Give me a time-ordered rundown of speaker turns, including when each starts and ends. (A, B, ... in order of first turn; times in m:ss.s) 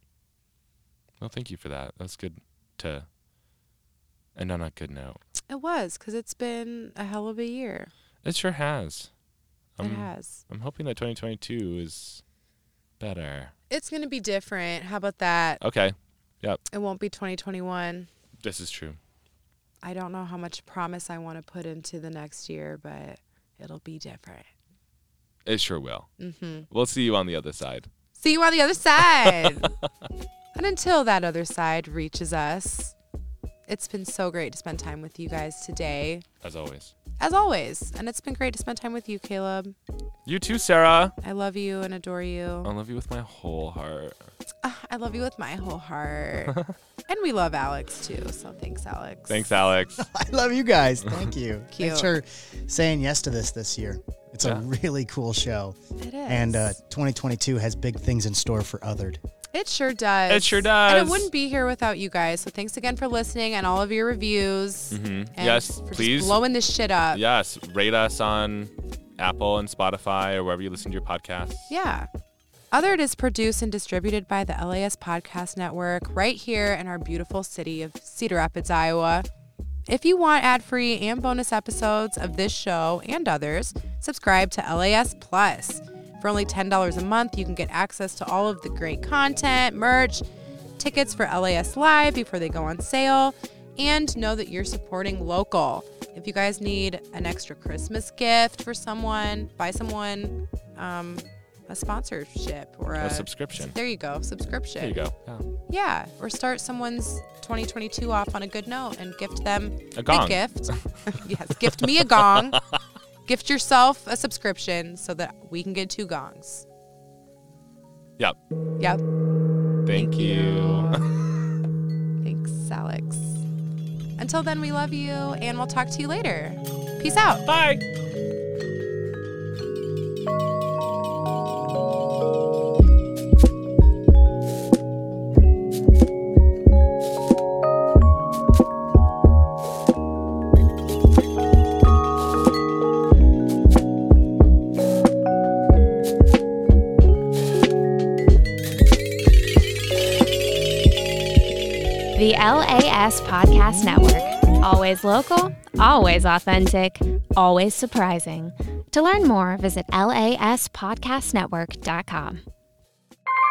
0:01.2-0:03.1 A
0:04.4-0:05.2 A
0:05.5-0:07.9 B
0:08.2-0:09.1 A
0:09.8-0:12.2 A
0:09.8-0:10.4 B
0:13.0-0:13.5 A
0:13.7-0:15.6 B
0:15.6-0:16.6 A
0:16.7-0:18.1 B
0:18.4-0:19.0 A
0:19.8-0:24.5 B
0:25.5-0:26.1 A
0:26.2-0:26.7 B
0:26.7-0:27.9 A
0:28.2-0:29.8 B
0:29.0-0:29.9 A
0:30.6-0:32.9 B
0:33.7-0:36.3 B
0:36.4-0:36.9 A
0:37.2-0:39.8 B
0:40.3-0:41.2 A
0:41.2-0:42.7 B
0:42.6-0:44.2 A
0:44.6-0:49.5 B
0:46.5-0:46.7 A
0:49.3-0:50.1 A
0:50.0-0:55.8 C
0:51.0-0:51.3 A
0:51.7-0:52.2 B
0:56.0-0:56.7 B
0:56.3-0:59.2 C
0:59.5-1:07.2 B
1:00.3-1:01.3 A
1:04.9-1:06.4 A
1:07.1-1:11.7 A
1:11.7-1:12.1 B
1:12.7-1:19.3 B
1:19.9-1:30.2 B
1:30.8-1:45.0 B
1:43.0-1:43.8 A
1:44.8-1:45.5 A
1:45.7-1:52.6 B
1:49.9-1:51.0 A
1:51.6-1:52.8 A
1:53.3-1:56.7 B
1:59.8-2:01.0 A
1:59.9-2:01.1 B
2:02.2-2:03.4 B
2:04.2-2:07.5 B
2:07.5-2:07.8 A
2:32.2-2:42.4 D